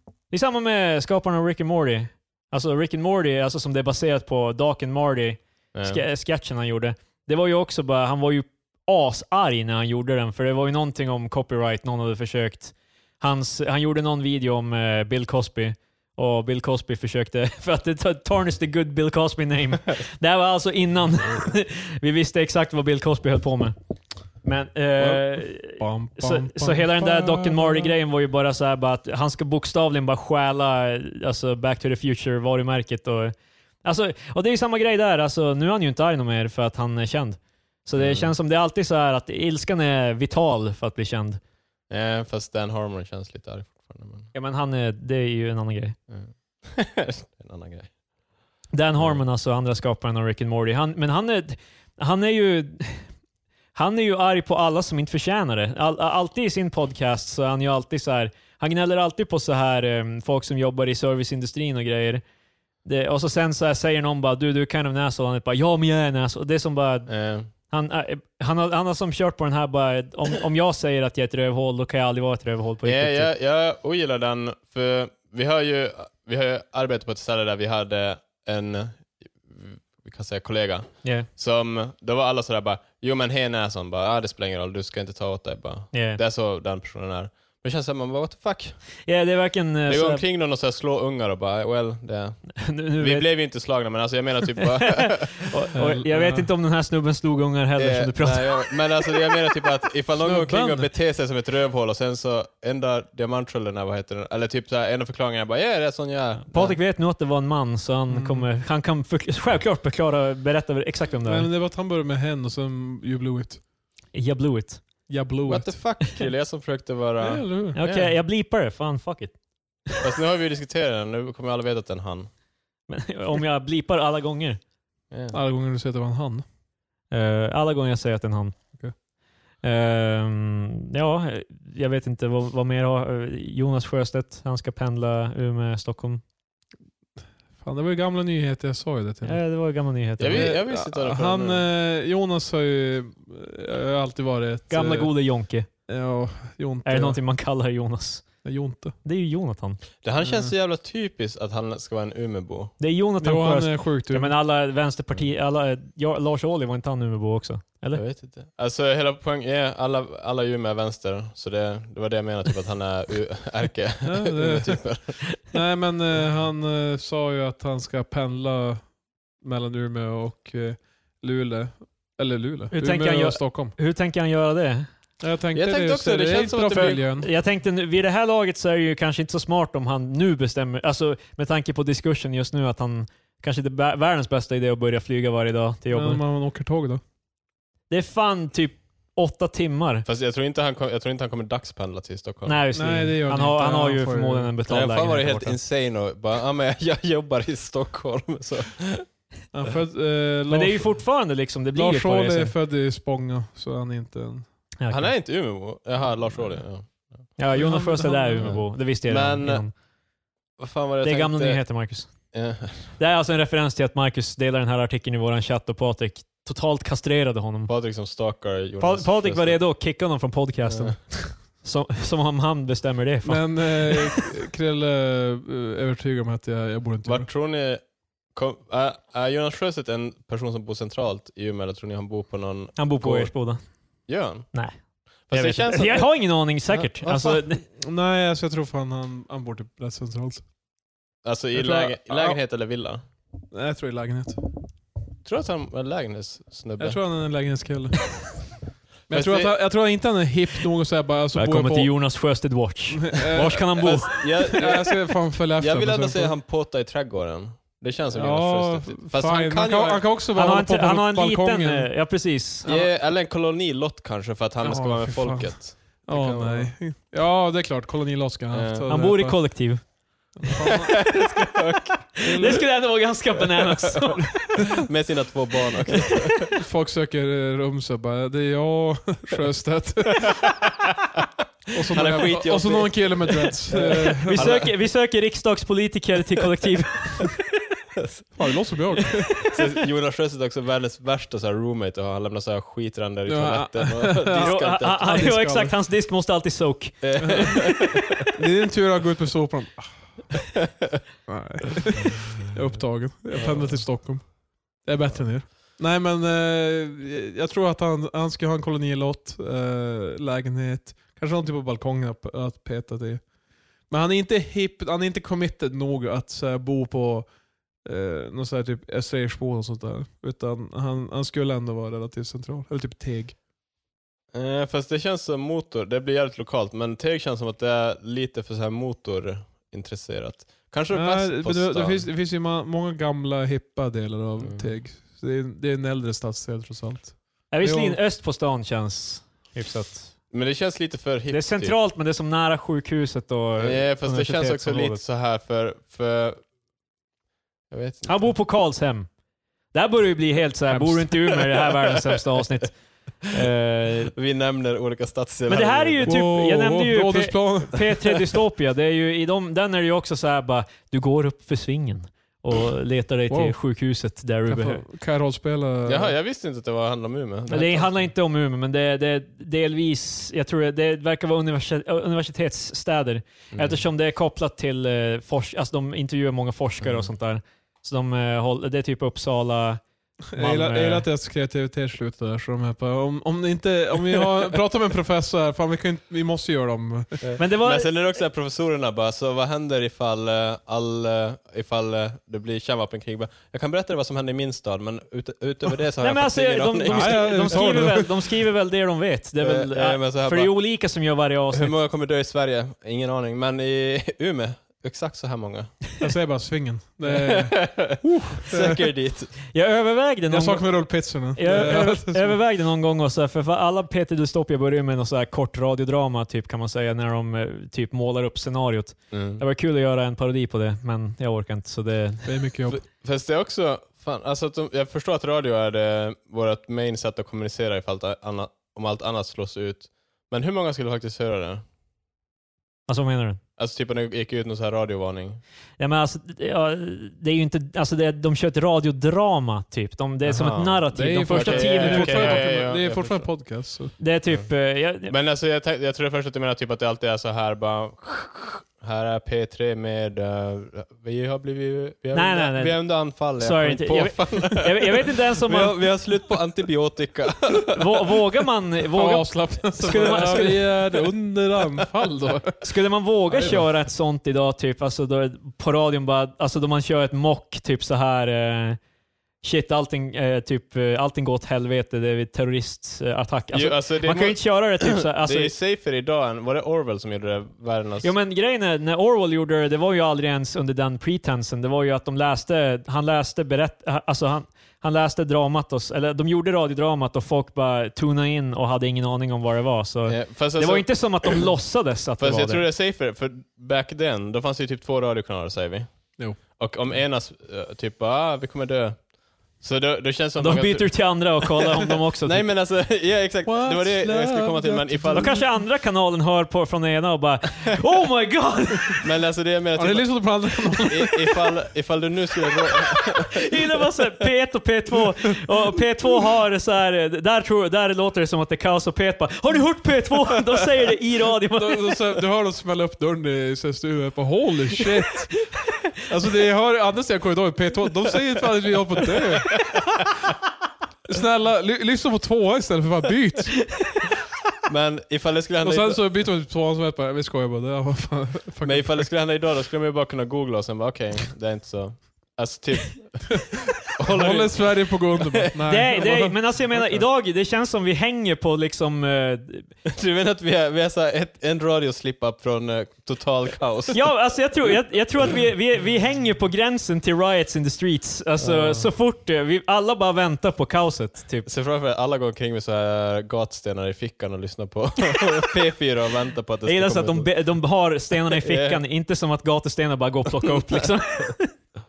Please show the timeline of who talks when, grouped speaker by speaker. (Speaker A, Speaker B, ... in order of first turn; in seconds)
Speaker A: 0.3-23.7, 24.4-41.4, 44.3-46.0, 48.7-53.1, 53.7-62.2, 62.8-73.3, 81.0-81.3, 85.9-86.2, 89.0-90.2, 92.6-93.3, 94.8-98.7, 106.5-111.5, 114.1-114.8, 117.7-119.4, 122.9-124.6, 127.1-128.8, 129.6-136.2, 139.2-140.5, 144.7-145.7, 146.8-148.4, 149.0-149.8, 152.8-158.0, 172.7-174.9, 177.2-186.2, 187.9-190.1, 192.4-195.6, 200.5-202.5, 204.8-205.1, 207.4-209.7, 211.0-212.3, 213.0-217.7, 218.8-224.2, 232.8-233.6, 234.5-234.8, 235.3-237.6, 251.3-254.2, 260.3-262.6, 268.9-269.9, 272.2-274.6, 284.2-287.3, 294.3-297.0, 337.5-340.1, 341.3-345.0, 348.1-349.1, 349.7-354.1, 355.5-364.8, 367.5-381.1, 387.4-387.9, 396.0-401.8, 409.5-422.3, 432.9-433.4, 435.8-442.4, 444.0-445.1, 452.1-455.8, 457.7-460.6, 462.6-468.8, 469.4-475.5, 478.0-492.6, 500.4-502.4, 505.1-509.0, 513.3-522.1, 545.6-549.7, 553.9-561.5, 566.6-571.6
Speaker B: 5.7-6.0, 38.0-38.3, 41.9-44.3, 46.1-47.9, 67.1-67.5, 72.8-89.0, 89.9-95.5, 97.8-106.8, 115.5-118.0, 120.0-122.3, 125.1-125.4, 140.2-141.6, 150.0-152.7, 157.9-165.2, 175.5-177.0, 190.1-192.6, 194.7-199.1, 204.9-207.3, 208.4-209.7, 210.6-211.7, 212.3-212.9, 217.7-219.6, 220.7-221.0, 227.0-227.8, 228.3-233.3, 234.1-234.5, 235.3-236.1, 237.0-237.3, 241.2-243.0, 245.2-247.0, 249.1-249.5, 253.8-255.0, 255.6-260.0, 262.6-266.7, 268.5-268.9, 270.6-272.2, 273.6-276.5, 280.4-280.7, 281.9-284.7, 288.0-288.2, 289.4-295.2, 297.0-298.2, 303.3-303.8, 324.3-332.1, 334.4-334.7, 340.3-341.8, 343.6-346.4, 347.7-348.2, 354.1-356.1, 365.9-368.1, 373.5-373.8, 376.8-377.1, 387.2-397.9, 399.4-400.6, 401.5-405.8, 407.0-409.3, 419.1-419.4, 422.7-431.6, 433.6-435.4, 440.3-443.3, 445.0-457.9, 459.9-461.1, 473.5-478.1, 490.1-491.4, 492.2-501.5, 502.2-505.4, 509.0-513.4, 534.6-536.0, 538.6-545.5, 549.9-554.0, 558.4-558.9, 561.4-568.8
Speaker C: 25.0-27.9, 95.7-96.5, 100.2-100.9, 108.1-108.5, 111.2-113.6, 115.1-115.8, 117.2-118.0, 125.3-126.4, 137.6-139.4, 140.3-145.1, 145.9-147.2, 148.4-148.9, 150.2-150.5, 153.2-154.3, 164.0-173.7, 175.2-177.3, 185.9-187.0, 192.7-194.5, 199.5-201.0, 201.7-204.5, 207.5-208.6, 223.2-227.3, 237.0-240.4, 241.5-242.4, 243.5-244.4, 246.8-248.3, 249.1-251.9, 252.9-256.3, 258.1-261.9, 262.6-262.9, 264.6-269.6, 270.4-271.0, 272.2-272.7, 276.5-280.4, 281.7-284.6, 288.3-289.4, 293.3-295.7, 297.2-297.6, 298.3-300.4, 301.3-317.3, 317.8-323.4, 330.9-338.0, 350.7-351.1, 356.0-358.1, 363.3-363.6, 364.4-366.1, 380.3-387.2, 396.8-398.3, 406.0-408.8, 410.3-412.4, 422.2-422.8, 440.9-443.9, 458.9-462.6, 463.3-463.6, 503.4-505.5, 509.8-511.5, 521.5-525.5, 526.0-529.6, 531.0-533.7, 535.6-539.1, 544.0-546.7